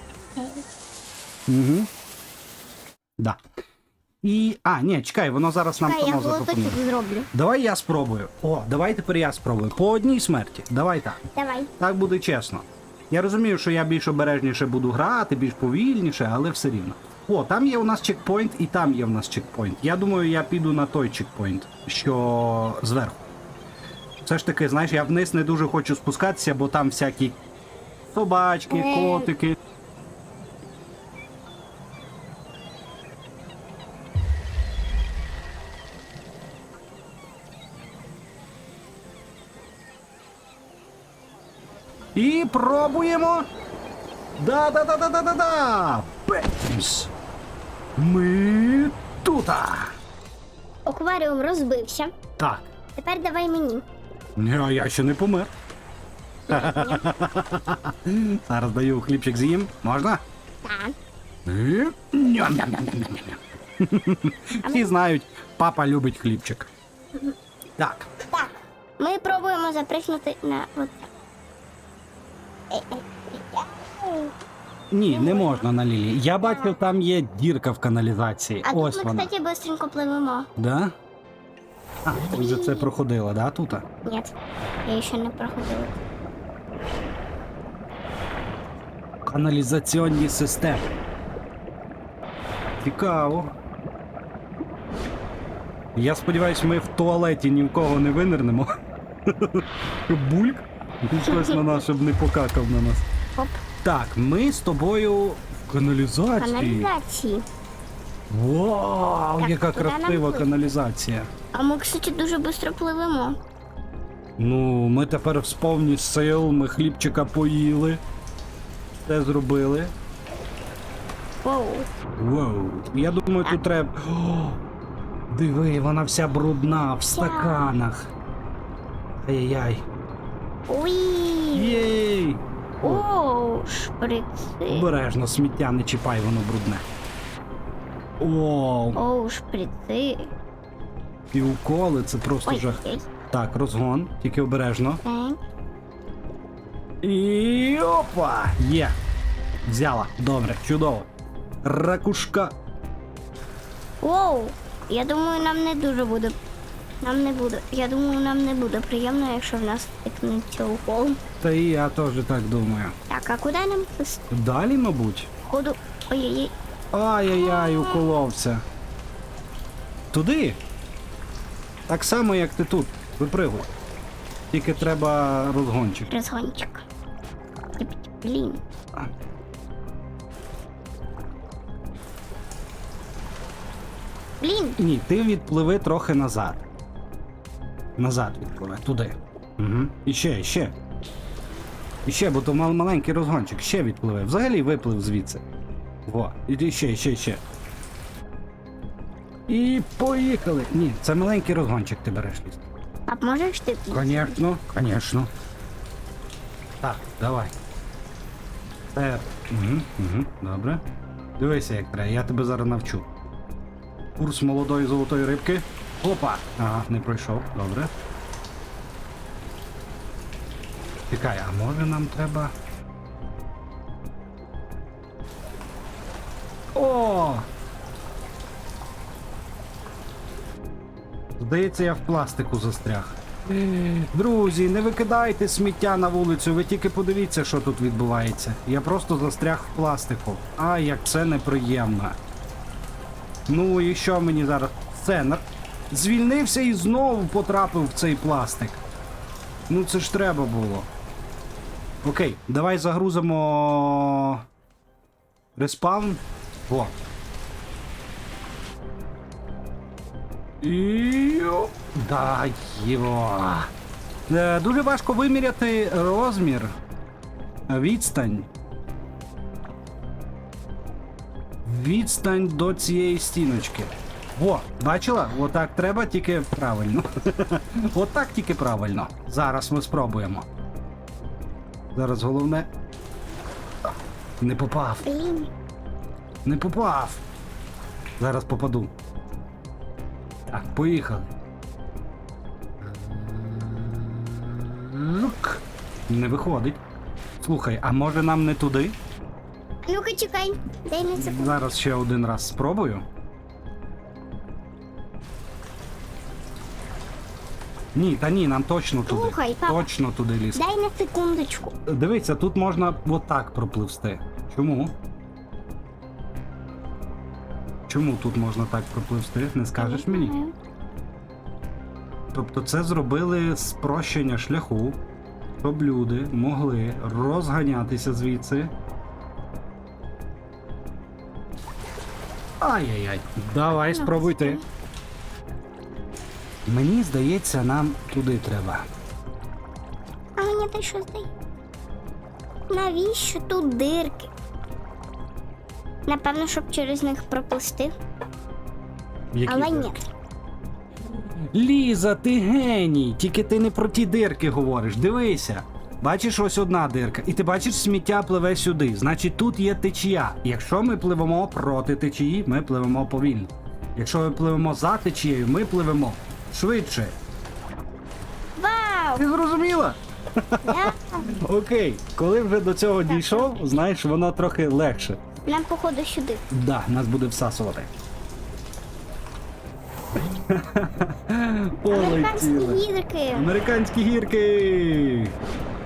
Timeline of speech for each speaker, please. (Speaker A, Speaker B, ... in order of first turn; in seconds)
Speaker A: 0.4-0.6, 5.8-7.3, 11.3-11.7, 28.7-29.3, 50.9-52.1, 53.0-53.9, 56.5-57.1, 60.6-61.0, 64.6-65.0, 68.3-71.1, 72.7-74.3, 75.1-75.7, 76.4-76.7, 78.6-80.5, 82.3-82.9, 84.0-84.3, 84.8-86.0, 106.4-107.5, 109.4-110.5, 111.5-113.4, 121.4-121.9, 127.1-127.7, 130.7-131.9, 132.8-134.9, 138.9-140.3, 142.5-143.1, 145.0-145.4, 154.0-156.3, 157.0-161.2, 163.1-164.3, 165.5-166.5, 167.3-168.1, 176.1-176.8, 177.8-178.6, 184.4-184.8, 203.1-204.3, 285.0-285.5, 299.9-301.6, 309.1-309.9, 310.6-311.8, 319.8-320.5, 333.9-334.6, 340.4-341.3, 342.7-344.3, 346.1-347.9, 349.5-350.0, 368.6-369.2, 370.6-371.3, 373.1-373.5, 375.5-376.4, 381.9-383.5
Speaker B: 1.5-1.9, 4.2-6.8, 7.3-11.2, 11.8-23.2, 24.2-27.4, 28.1-29.6, 42.1-43.5, 44.4-47.1, 48.0-50.0, 52.4-52.7, 54.4-55.5, 56.5-60.2, 61.5-66.7, 67.8-68.1, 74.9-79.3, 80.6-81.0, 82.0-83.8, 89.2-90.9, 92.8-93.5, 96.0-98.7, 99.3-103.0, 103.8-106.9, 108.3-111.3, 114.4-118.0, 119.0-119.9, 122.2-124.6, 125.3-128.1, 129.2-129.8, 131.5-133.1, 134.7-136.8, 138.2-139.0, 141.3-145.0, 147.0-149.0, 149.6-151.1, 151.6-152.5, 161.4-163.0, 164.3-165.3, 166.9-168.6, 170.1-170.6, 171.9-173.7, 174.5-176.1, 184.8-186.6, 188.0-190.7, 192.1-195.4, 196.1-197.4, 199.5-202.6, 203.9-205.3, 206.8-207.5, 208.9-210.8, 211.4-213.1, 214.2-217.9, 221.1-222.5, 226.7-227.5, 231.4-242.2, 243.5-248.8, 249.7-250.9, 252.0-254.4, 255.6-257.0, 260.6-263.7, 264.3-266.8, 267.7-268.5, 271.6-280.5, 281.9-282.7, 284.4-285.1, 286.4-287.2, 288.2-288.9, 290.5-291.3, 292.8-296.8, 297.4-299.0, 301.1-303.1, 307.9-310.6, 311.9-314.9, 317.9-320.3, 322.3-325.0, 325.6-328.7, 332.6-334.6, 336.7-338.9, 349.3-350.0, 351.1-367.2, 369.2-375.2, 376.5-377.9, 380.1-385.4